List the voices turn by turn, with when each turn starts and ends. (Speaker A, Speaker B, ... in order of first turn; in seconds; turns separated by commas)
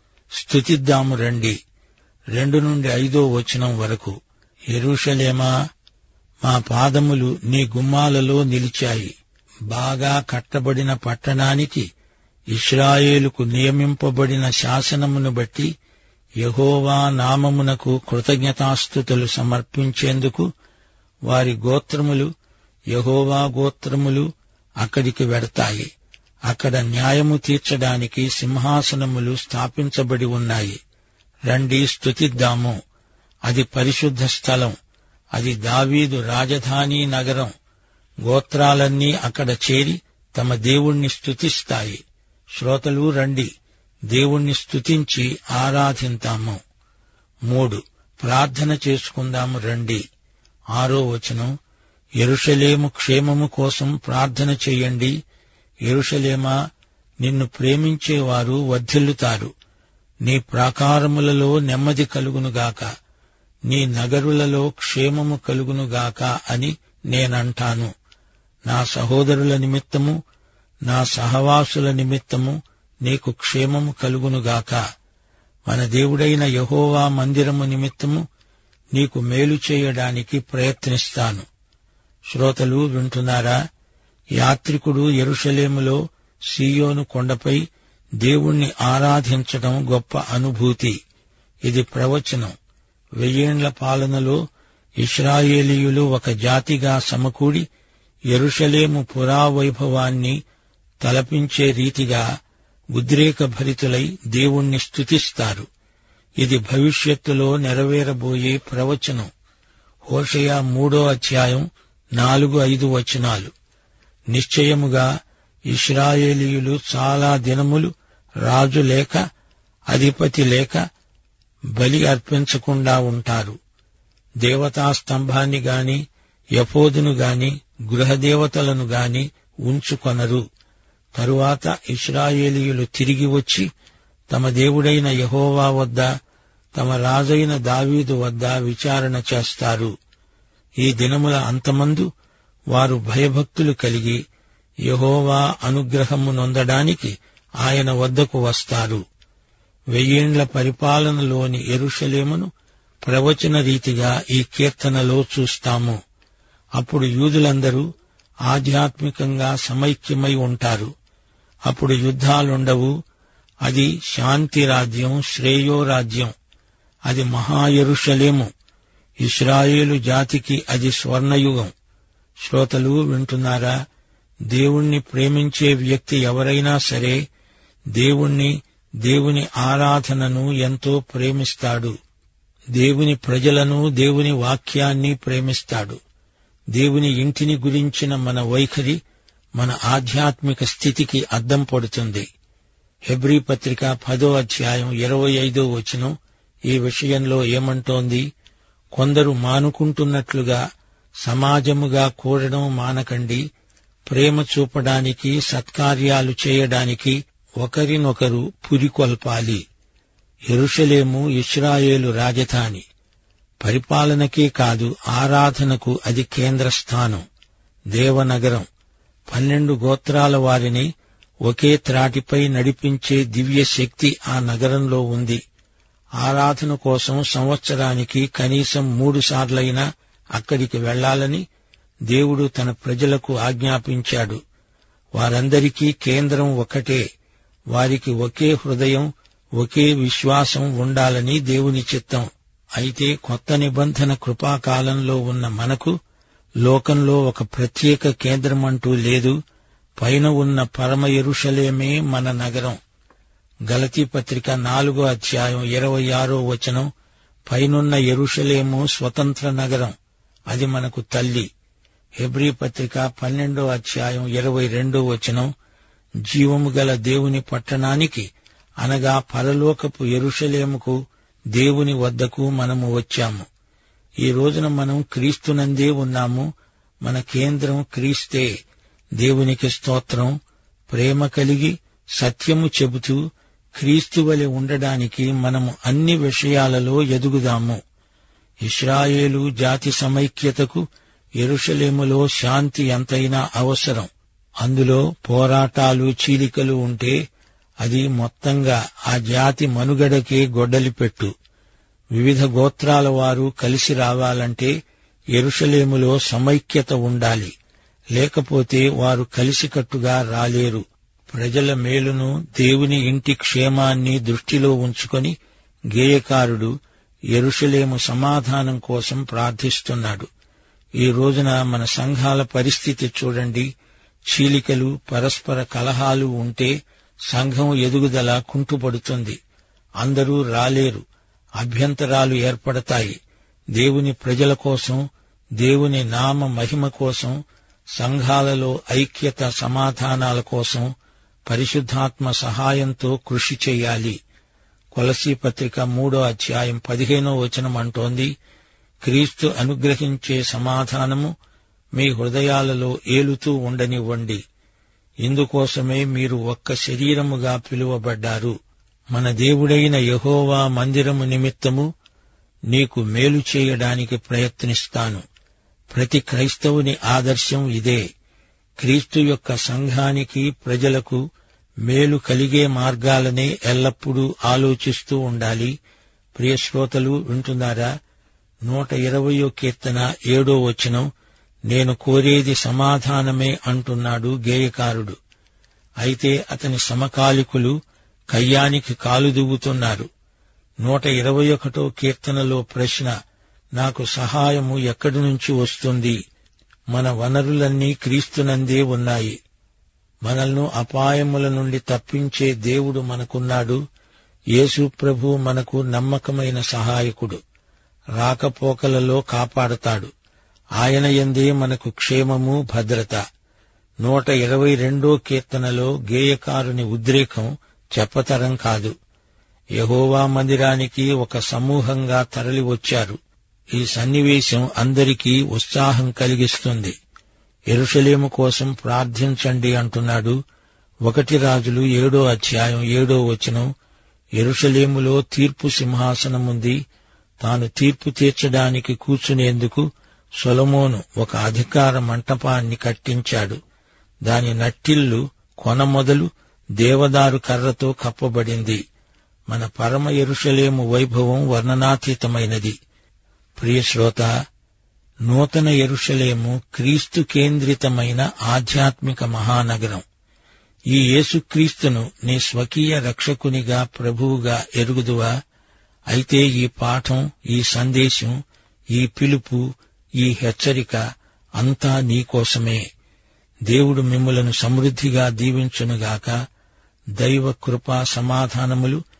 Speaker A: 0.4-1.6, Speaker A: 2.4-4.2, Speaker A: 4.7-5.5, Speaker A: 6.4-9.1, Speaker A: 9.7-11.9, Speaker A: 12.5-15.7, Speaker A: 16.4-20.5, Speaker A: 21.3-22.3, Speaker A: 22.9-24.3, Speaker A: 24.8-25.9, Speaker A: 26.5-30.8, Speaker A: 31.5-32.8, Speaker A: 33.5-34.8, Speaker A: 35.4-37.5, Speaker A: 38.2-42.0, Speaker A: 42.6-43.5, Speaker A: 44.1-46.6, Speaker A: 47.5-50.0, Speaker A: 50.8-51.5, Speaker A: 52.2-55.2, Speaker A: 55.9-56.6, Speaker A: 57.2-59.5, Speaker A: 60.2-62.9, Speaker A: 63.7-67.9, Speaker A: 68.7-70.2, Speaker A: 70.9-74.8, Speaker A: 75.7-78.2, Speaker A: 79.0-81.5, Speaker A: 82.3-83.6, Speaker A: 84.4-86.0, Speaker A: 86.5-87.6, Speaker A: 88.2-91.0, Speaker A: 91.7-92.5, Speaker A: 93.2-94.4, Speaker A: 95.0-97.7, Speaker A: 98.3-100.4, Speaker A: 101.0-102.2, Speaker A: 103.0-105.7, Speaker A: 106.4-109.3, Speaker A: 110.0-113.5, Speaker A: 114.3-115.1, Speaker A: 115.7-117.9, Speaker A: 118.4-119.2, Speaker A: 119.9-120.8, Speaker A: 121.8-123.6, Speaker A: 124.4-126.0, Speaker A: 126.6-130.4, Speaker A: 131.2-133.7, Speaker A: 134.3-136.1, Speaker A: 136.8-139.9, Speaker A: 140.8-142.1, Speaker A: 142.7-144.2, Speaker A: 144.9-149.0, Speaker A: 149.9-152.5, Speaker A: 153.0-156.0, Speaker A: 156.8-157.9, Speaker A: 158.5-160.9, Speaker A: 161.7-162.9, Speaker A: 163.7-166.3, Speaker A: 167.1-168.5, Speaker A: 169.2-171.7, Speaker A: 172.4-173.8, Speaker A: 174.5-177.2, Speaker A: 178.0-181.9, Speaker A: 182.8-186.0, Speaker A: 186.7-189.0, Speaker A: 189.6-192.3, Speaker A: 193.1-196.1, Speaker A: 196.7-198.3, Speaker A: 198.9-200.6, Speaker A: 201.2-203.4, Speaker A: 204.1-209.6, Speaker A: 210.5-212.8, Speaker A: 213.6-217.2, Speaker A: 217.9-218.7, Speaker A: 219.3-220.9, Speaker A: 221.5-225.4, Speaker A: 226.2-231.5, Speaker A: 232.1-234.4, Speaker A: 235.2-237.0, Speaker A: 237.7-246.0, Speaker A: 246.6-249.4, Speaker A: 250.0-252.8, Speaker A: 253.7-256.9, Speaker A: 257.5-259.9, Speaker A: 260.5-261.5, Speaker A: 262.2-265.5, Speaker A: 266.3-268.3, Speaker A: 268.8-271.0, Speaker A: 271.5-273.5, Speaker A: 274.2-276.5, Speaker A: 277.0-278.5, Speaker A: 279.2-280.4, Speaker A: 280.9-283.2, Speaker A: 283.8-287.8, Speaker A: 288.6-290.8, Speaker A: 291.4-294.1, Speaker A: 294.6-297.2, Speaker A: 297.8-301.3, Speaker A: 302.2-304.7, Speaker A: 305.4-307.5, Speaker A: 308.1-315.4, Speaker A: 315.9-316.7, Speaker A: 317.3-320.3, Speaker A: 321.0-323.7, Speaker A: 324.3-326.8, Speaker A: 327.3-329.4, Speaker A: 330.0-331.1, Speaker A: 331.6-333.2, Speaker A: 333.8-335.0, Speaker A: 335.6-337.4, Speaker A: 338.0-340.9, Speaker A: 341.5-344.2, Speaker A: 344.9-348.3, Speaker A: 349.1-351.3, Speaker A: 352.0-354.4, Speaker A: 355.2-358.6, Speaker A: 359.1-361.9, Speaker A: 362.7-365.2, Speaker A: 365.9-368.0, Speaker A: 368.8-371.2, Speaker A: 371.9-375.8, Speaker A: 376.4-377.9, Speaker A: 378.7-381.1, Speaker A: 381.7-385.2, Speaker A: 386.0-387.8, Speaker A: 388.3-390.1, Speaker A: 390.8-393.1, Speaker A: 393.8-396.2, Speaker A: 396.9-399.4, Speaker A: 400.3-403.8, Speaker A: 404.6-407.4, Speaker A: 408.2-410.1, Speaker A: 410.8-413.2, Speaker A: 414.0-418.9, Speaker A: 419.8-423.2, Speaker A: 423.8-426.9, Speaker A: 427.7-430.4, Speaker A: 431.1-433.7, Speaker A: 434.4-436.8, Speaker A: 437.4-439.9, Speaker A: 440.4-443.6, Speaker A: 444.3-448.8, Speaker A: 449.5-452.8, Speaker A: 453.6-454.3, Speaker A: 455.3-460.0, Speaker A: 460.9-465.4, Speaker A: 466.1-468.4, Speaker A: 468.9-471.0, Speaker A: 471.6-472.9, Speaker A: 473.7-476.4, Speaker A: 477.2-479.0